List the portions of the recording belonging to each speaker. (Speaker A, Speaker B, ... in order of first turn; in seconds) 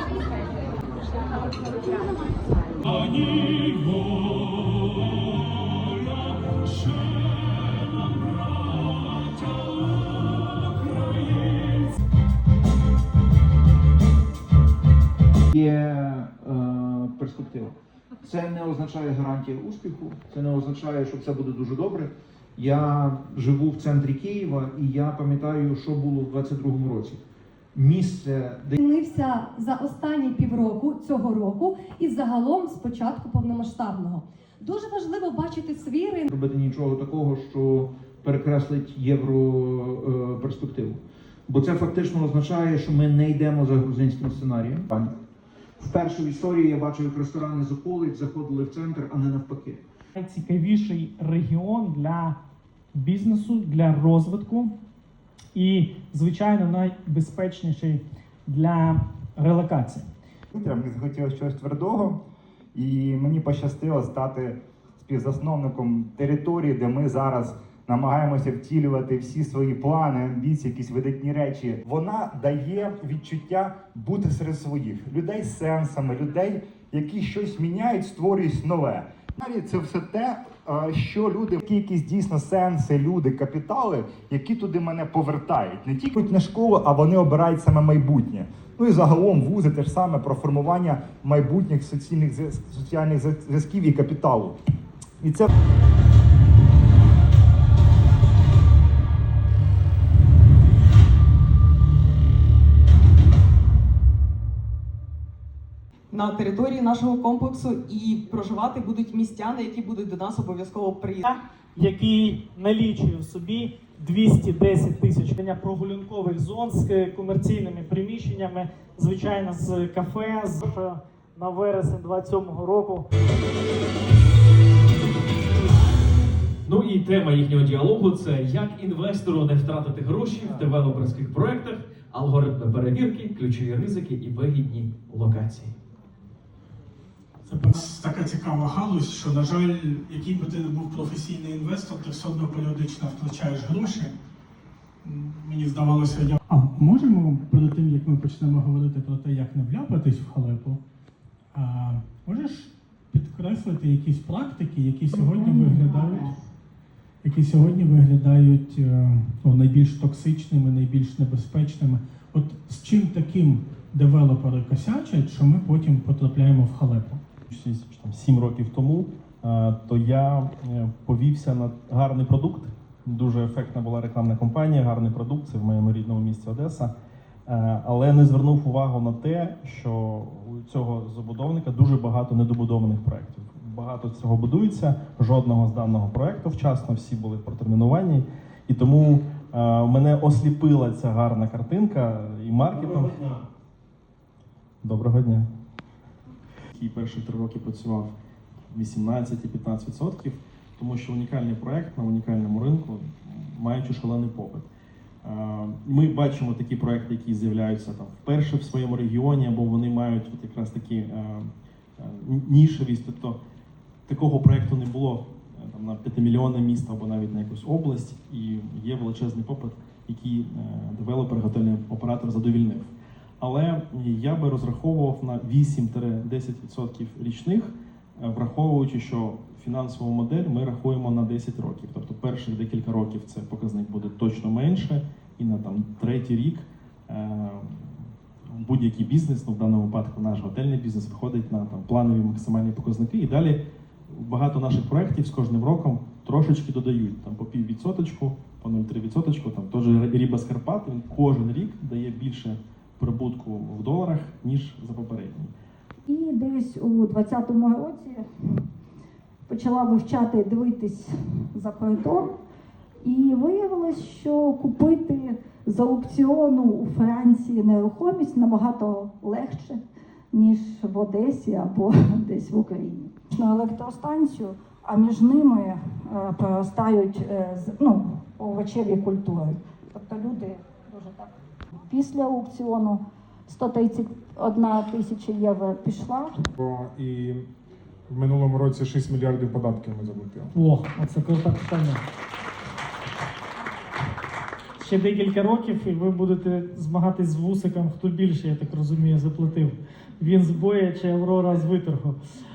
Speaker A: 15.5-27.2, 27.8-28.8, 36.3-45.1, 45.8-49.8
Speaker B: 28.8-36.3
Speaker C: 50.2-52.4, 52.9-54.8, 55.5-60.1, 111.2-123.1, 290.5-292.0, 294.8-302.2
Speaker D: 60.5-62.2, 62.8-94.6, 95.2-95.5
Speaker E: 106.1-111.3
Speaker F: 126.7-135.7
Speaker G: 137.5-144.2, 145.0-150.8, 151.5-156.3, 157.2-167.2, 192.8-193.3
Speaker H: 167.5-176.9, 177.5-193.2, 194.8-195.5, 196.7-198.1, 198.7-204.7, 205.2-213.4, 214.1-255.5
Speaker I: 256.1-258.2, 259.5-262.3, 263.0-269.8, 270.3-281.3, 281.9-286.3
Speaker J: 286.6-287.4, 288.1-290.5